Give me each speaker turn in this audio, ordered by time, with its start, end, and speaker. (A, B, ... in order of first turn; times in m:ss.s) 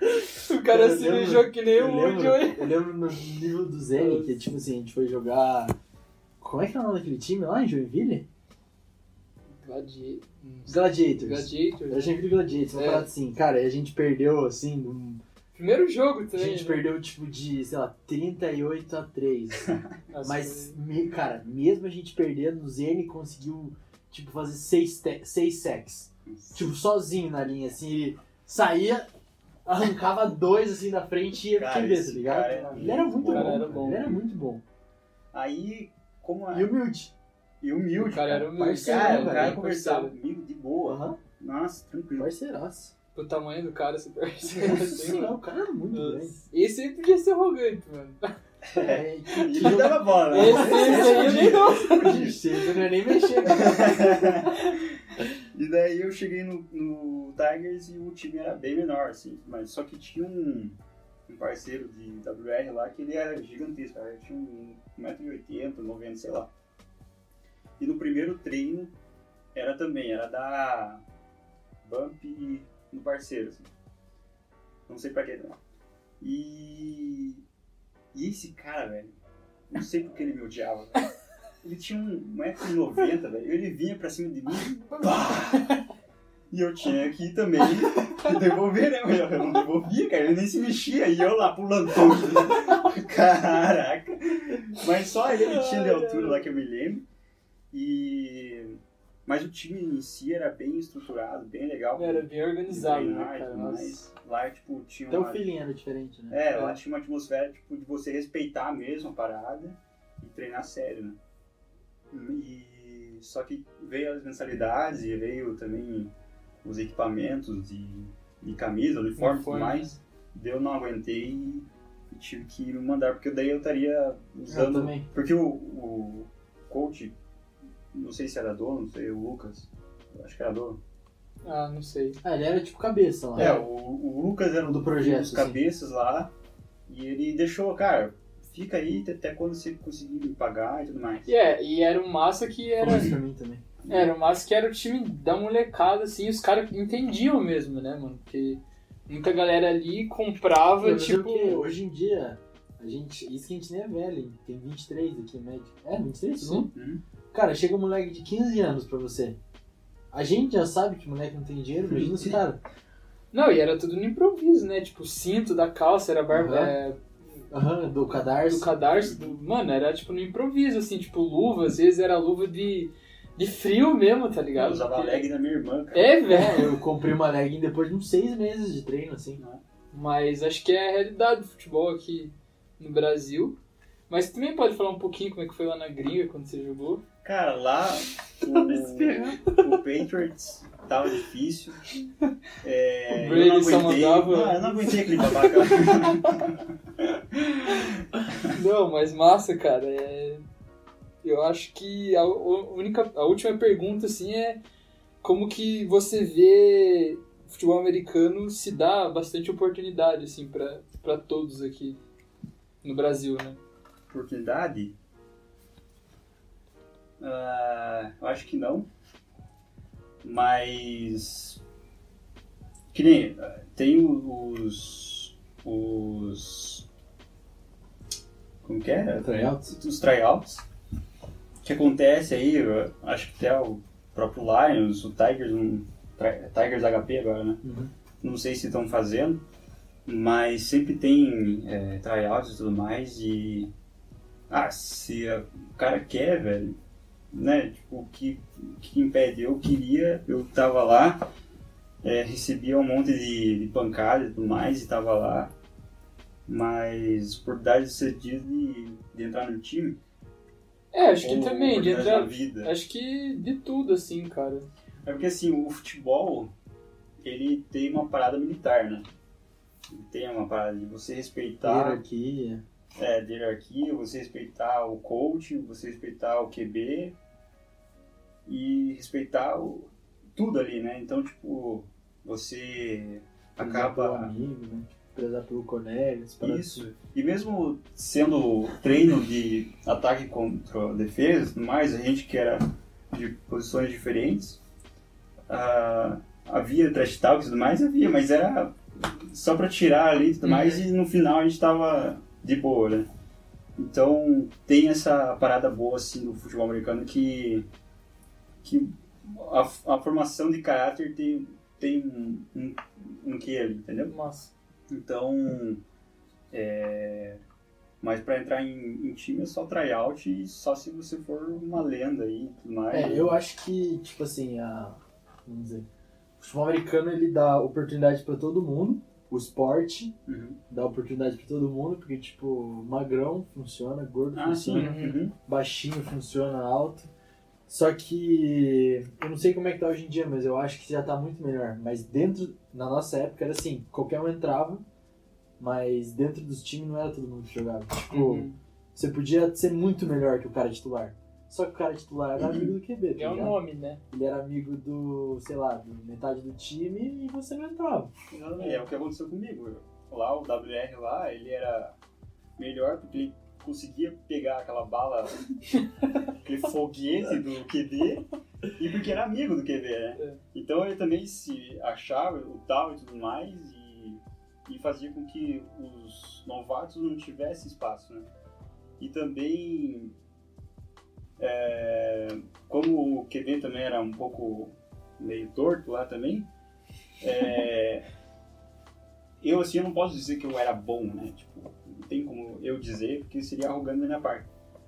0:00.1-0:02.8 A
0:00.7-0:05.7 B
0:04.0-0:04.4 A
0:06.4-0:08.2 B
0:09.6-0:13.1 A
0:10.7-0:15.2 B
0:15.5-0:16.8 A
0:16.3-0:29.1 B
0:20.1-0:20.8 A
0:26.2-0:26.7 C
0:29.6-0:34.6 B
0:31.5-0:34.2 C
0:32.8-0:34.1 A
0:35.3-0:36.7 C
0:36.5-0:37.1 B
0:37.6-0:42.3 C
0:38.0-0:40.1 A
0:38.5-0:39.6 B
0:40.8-0:41.2 B
0:42.2-0:42.9 B
0:43.1-0:45.4 A
0:44.5-0:46.4 B
0:45.9-0:48.3 A
0:48.6-0:52.4 C
0:48.7-0:54.5 B
0:49.6-0:53.7 A
0:53.4-1:06.5 C
1:07.8-1:08.9 C
1:09.5-1:11.0 C
1:11.8-1:13.7 C
1:14.9-1:15.6 C
1:16.2-1:17.4 C
1:18.1-1:19.2 C
1:19.7-1:21.0 C
1:21.6-1:25.8 C
1:26.5-1:37.0 C
1:35.3-1:36.5 A
1:37.7-1:45.4 C
1:42.0-1:44.0 A
1:45.1-1:46.4 B
1:46.3-1:51.2 C
1:52.1-1:56.1 C
1:56.6-2:07.1 C
1:59.2-2:00.0 A
2:04.5-2:05.1 B
2:07.9-2:10.8 C
2:11.4-2:12.2 A
2:12.2-2:13.5 B
2:13.4-2:13.6 A
2:13.4-2:16.3 C
2:14.6-2:15.6 B
2:16.9-2:21.3 C
2:21.3-2:23.2 A
2:22.8-2:23.6 B
2:23.8-2:24.1 C
2:23.9-2:31.7 A
2:30.8-2:36.7 B
2:36.4-2:36.7 A
2:36.7-2:37.0 C
2:37.3-2:39.4 B
2:40.1-2:42.6 B
2:41.9-2:42.4 C
2:43.3-2:47.0 A
2:46.3-2:46.7 B
2:47.5-2:48.7 B
2:48.1-2:55.2 A
2:48.9-2:49.4 C
2:54.6-2:56.1 C
2:55.9-2:56.8 A
2:56.3-2:59.4 B
2:59.9-3:03.6 A
3:04.1-3:07.0 A
3:07.2-3:11.8 C
3:08.5-3:09.4 B
3:12.6-3:18.6 C
3:13.1-3:16.4 A
3:17.8-3:20.4 A
3:21.2-3:24.6 A
3:25.2-3:32.0 A
3:32.8-3:33.6 A
3:34.1-3:34.9 C
3:37.2-3:38.8 C
3:40.2-3:41.6 C
3:42.9-3:46.8 C
3:48.6-3:50.6 C
3:49.2-3:49.7 B
3:51.6-3:57.6 C
3:57.6-3:57.9 B
3:58.2-3:59.4 C
4:00.0-4:03.7 C
4:04.5-4:06.8 C
4:07.3-4:11.2 C
4:12.0-4:15.5 C
4:16.5-4:20.0 C
4:20.9-4:24.7 A
4:21.2-4:22.7 C
4:25.0-4:26.5 C
4:27.2-4:29.0 C
4:29.9-4:32.0 C
4:31.6-4:32.6 B
4:33.0-4:37.1 C
4:38.4-4:44.3 C
4:43.6-4:46.9 B
4:46.4-4:54.6 C
4:55.5-5:03.1 C
5:00.4-5:00.8 A
5:03.8-5:07.6 C
5:08.6-5:14.1 C
5:14.1-5:14.5 A
5:14.9-5:15.8 C
5:16.5-5:17.4 C
5:18.0-5:23.4 C
5:22.9-5:25.8 B
5:26.4-5:30.1 B
5:30.3-5:30.6 C
5:30.7-5:34.9 B
5:34.3-5:35.3 C
5:34.7-5:35.2 A
5:35.4-5:37.1 B
5:37.7-5:44.8 B
5:45.6-5:53.6 B
5:48.1-5:48.6 A
5:52.4-5:52.7 C
5:53.2-5:54.0 A
5:54.1-5:58.1 B
5:58.3-6:02.0 C
6:02.6-6:05.4 C
6:06.3-6:18.3 C
6:19.0-6:20.1 C
6:21.4-6:26.5 C
6:27.2-6:28.1 C
6:29.4-6:34.5 C